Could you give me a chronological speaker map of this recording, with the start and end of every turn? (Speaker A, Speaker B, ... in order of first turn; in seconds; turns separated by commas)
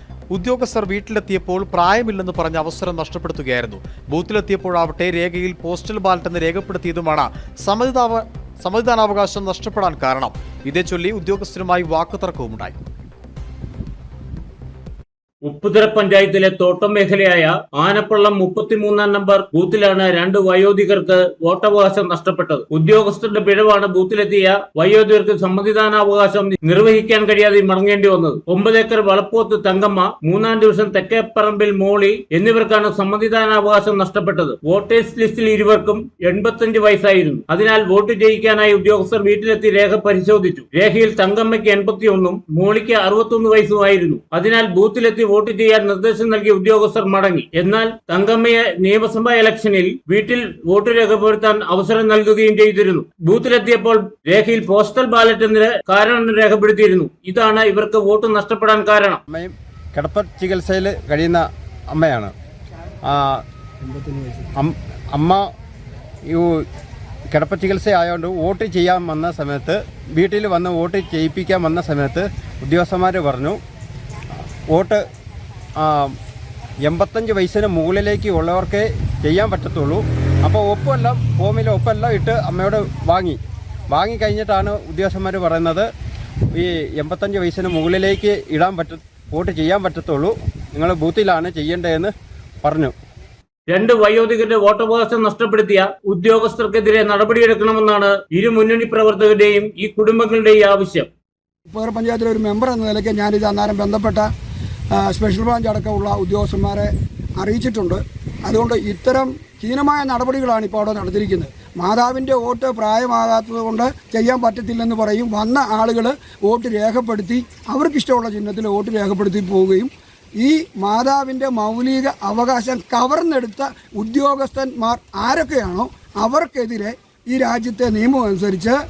Speaker A: 0.3-12.8, Speaker B: 15.4-59.2, Speaker C: 59.3-62.3, Speaker C: 63.0-63.4, Speaker D: 63.9-64.5, Speaker C: 64.6-65.5, Speaker C: 66.3-66.6, Speaker C: 67.3-73.6, Speaker C: 74.7-75.0, Speaker C: 75.8-76.1, Speaker C: 76.8-83.4, Speaker C: 83.9-85.9, Speaker C: 86.5-92.1, Speaker C: 92.6-92.9, Speaker B: 93.7-101.1, Speaker D: 101.7-104.3, Speaker D: 105.0-128.8